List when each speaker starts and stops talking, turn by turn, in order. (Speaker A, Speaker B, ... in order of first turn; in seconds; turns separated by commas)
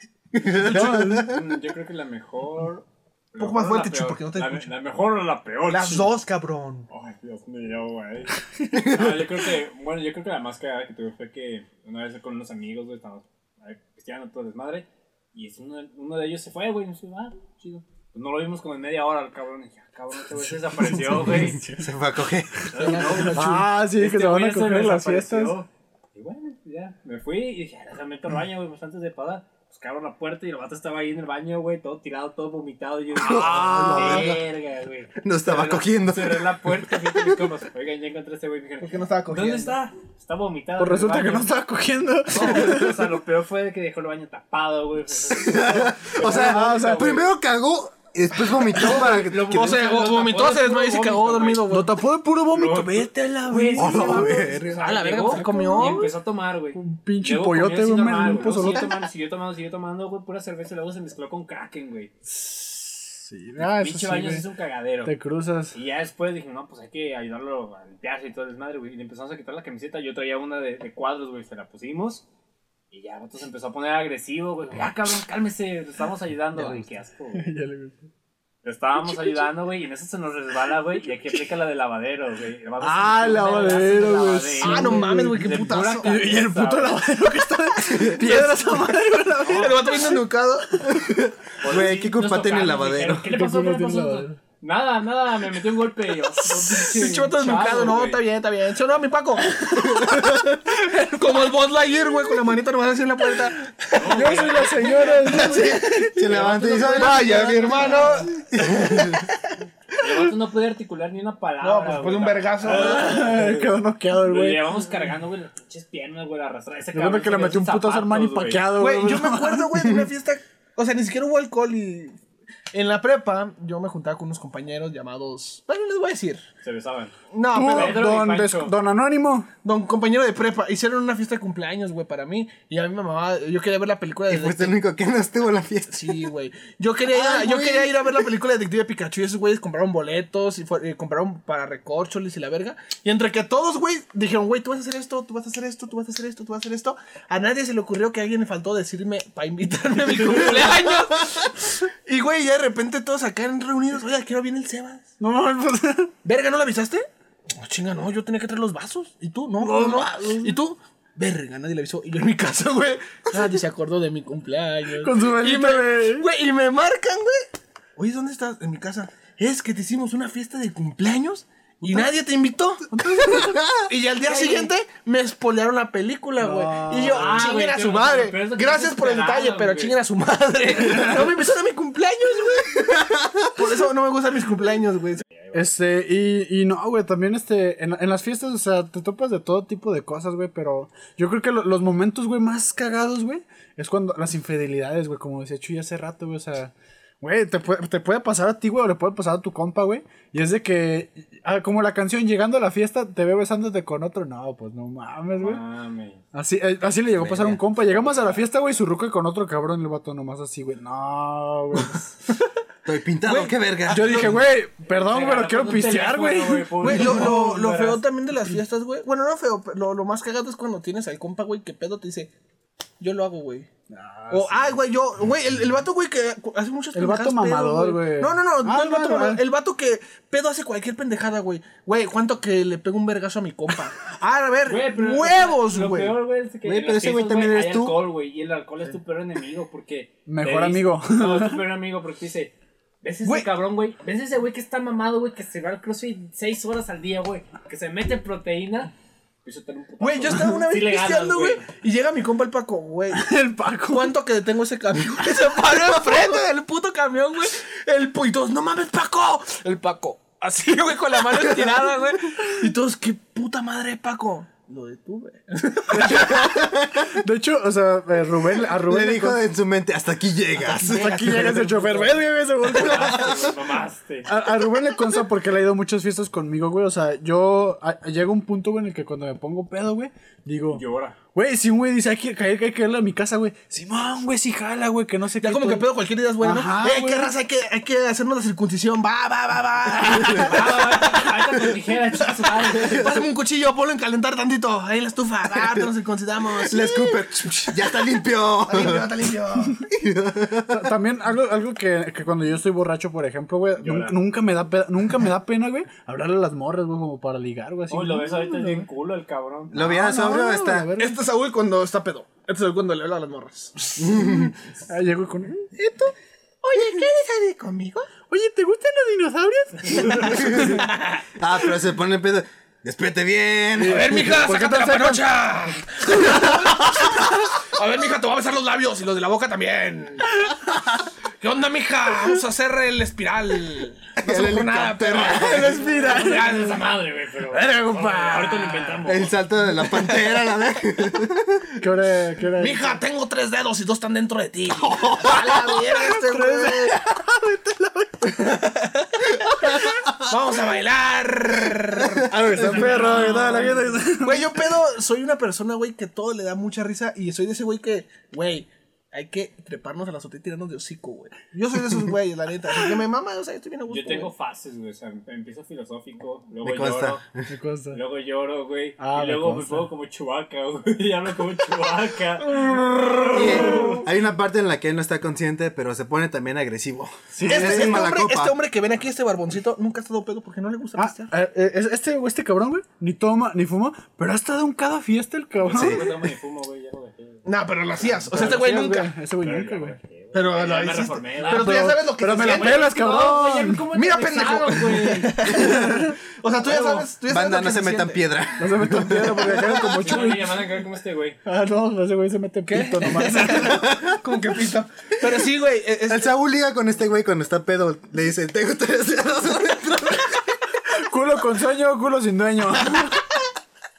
Speaker A: 0.3-1.4, Speaker B: 0.6-1.3, Speaker C: 0.7-6.1, Speaker D: 3.4-4.7, Speaker D: 5.7-6.9, Speaker C: 6.9-21.6, Speaker A: 8.8-9.1, Speaker A: 21.2-23.3, Speaker C: 22.7-41.5, Speaker D: 22.8-23.5, Speaker B: 23.3-25.6, Speaker A: 33.2-34.4, Speaker B: 33.2-34.4, Speaker A: 35.2-37.1, Speaker D: 38.8-39.8, Speaker B: 40.8-43.1, Speaker C: 42.3-47.3, Speaker A: 45.3-49.7, Speaker B: 46.2-47.2, Speaker C: 48.7-51.8, Speaker D: 49.2-51.9, Speaker B: 51.7-54.3, Speaker C: 52.5-62.1, Speaker A: 53.7-54.8, Speaker D: 54.8-56.1, Speaker B: 55.2-56.1, Speaker B: 56.7-58.9, Speaker B: 62.3-64.5, Speaker C: 63.6-65.1, Speaker B: 65.0-65.8, Speaker C: 65.7-72.2, Speaker C: 72.9-77.5, Speaker B: 77.3-78.0, Speaker C: 78.6-87.0, Speaker B: 82.8-90.2, Speaker D: 84.6-86.1, Speaker D: 88.2-88.9, Speaker C: 89.4-90.1, Speaker D: 89.4-90.9, Speaker A: 90.9-93.3, Speaker C: 91.6-98.2, Speaker B: 93.3-94.4, Speaker D: 96.6-104.3, Speaker C: 103.9-108.3, Speaker B: 104.0-106.4, Speaker D: 105.3-105.9, Speaker A: 106.1-109.2, Speaker D: 106.8-109.2, Speaker C: 110.0-118.7, Speaker D: 111.6-113.2, Speaker B: 112.6-114.7, Speaker B: 116.9-119.8, Speaker D: 118.7-122.2, Speaker D: 122.7-126.4, Speaker C: 126.6-127.1, Speaker D: 127.3-128.2, Speaker B: 127.5-129.5, Speaker C: 127.6-128.7, Speaker D: 129.6-134.8, Speaker A: 134.3-136.3, Speaker D: 135.9-155.1, Speaker A: 137.1-138.2, Speaker B: 155.2-156.1, Speaker D: 156.2-172.9, Speaker B: 159.6-160.6, Speaker B: 164.9-166.3, Speaker B: 172.9-173.6, Speaker A: 173.2-173.8, Speaker D: 173.8-183.0, Speaker C: 174.2-174.7, Speaker B: 176.4-177.6, Speaker C: 177.0-180.0, Speaker D: 183.5-185.2, Speaker C: 185.4-185.7, Speaker B: 185.5-205.6, Speaker C: 205.3-206.2, Speaker B: 206.3-212.1, Speaker A: 207.2-207.6, Speaker C: 208.0-208.3, Speaker A: 212.8-214.4, Speaker D: 213.2-214.4, Speaker B: 213.9-217.9, Speaker C: 214.9-218.0, Speaker D: 216.8-222.3, Speaker D: 223.0-223.7, Speaker B: 223.9-224.8, Speaker D: 224.3-236.2, Speaker B: 226.9-229.4, Speaker C: 234.7-248.9, Speaker A: 236.6-238.1, Speaker B: 240.2-241.6, Speaker D: 243.2-243.5, Speaker C: 249.4-251.6, Speaker D: 250.0-253.3, Speaker B: 253.1-254.2, Speaker D: 253.9-266.5, Speaker B: 265.9-269.4, Speaker A: 266.4-267.0, Speaker A: 268.7-271.3, Speaker D: 270.7-272.0, Speaker B: 270.9-273.3, Speaker C: 271.5-272.0, Speaker C: 272.7-274.3, Speaker A: 272.7-273.6, Speaker B: 274.2-280.8, Speaker C: 280.7-281.2, Speaker B: 281.3-287.3, Speaker D: 285.4-291.4, Speaker C: 290.1-293.2, Speaker D: 292.6-298.1, Speaker A: 295.6-295.9, Speaker A: 296.6-299.2, Speaker D: 298.6-299.9, Speaker A: 299.9-300.9, Speaker B: 300.7-308.9, Speaker C: 303.8-304.1, Speaker C: 307.9-309.8, Speaker A: 309.7-310.9, Speaker B: 309.7-311.2, Speaker D: 311.0-314.5, Speaker A: 314.0-314.5, Speaker B: 314.9-316.1, Speaker D: 316.6-318.1, Speaker B: 318.3-320.8, Speaker A: 320.1-320.9, Speaker D: 320.2-321.2, Speaker A: 321.4-324.3, Speaker B: 323.8-325.2, Speaker D: 323.8-330.4, Speaker D: 331.4-337.0, Speaker A: 334.2-335.8, Speaker B: 335.2-336.7, Speaker C: 335.9-339.3, Speaker B: 337.5-339.0, Speaker A: 339.1-341.7, Speaker B: 341.8-343.0, Speaker D: 342.6-347.0, Speaker A: 344.8-345.7, Speaker B: 345.8-348.6, Speaker D: 348.2-364.3, Speaker A: 352.2-352.9, Speaker B: 352.3-354.6, Speaker C: 352.6-353.8, Speaker C: 363.9-367.2, Speaker A: 366.6-367.5, Speaker B: 367.5-368.0, Speaker C: 367.9-374.0, Speaker B: 369.0-369.9, Speaker D: 372.5-374.0, Speaker A: 373.3-378.6, Speaker B: 377.3-378.0, Speaker D: 377.4-381.3, Speaker B: 381.0-386.1, Speaker C: 385.6-387.4, Speaker A: 385.7-386.1, Speaker D: 387.4-389.1, Speaker B: 388.3-389.9, Speaker C: 389.4-395.6, Speaker D: 390.3-392.9, Speaker B: 391.4-393.9, Speaker D: 393.9-398.2, Speaker B: 395.4-396.1, Speaker A: 397.3-400.0, Speaker B: 398.6-400.6, Speaker C: 400.0-401.4, Speaker B: 401.4-403.9, Speaker D: 402.6-406.3, Speaker A: 403.6-404.1, Speaker A: 406.1-410.4, Speaker B: 410.9-413.3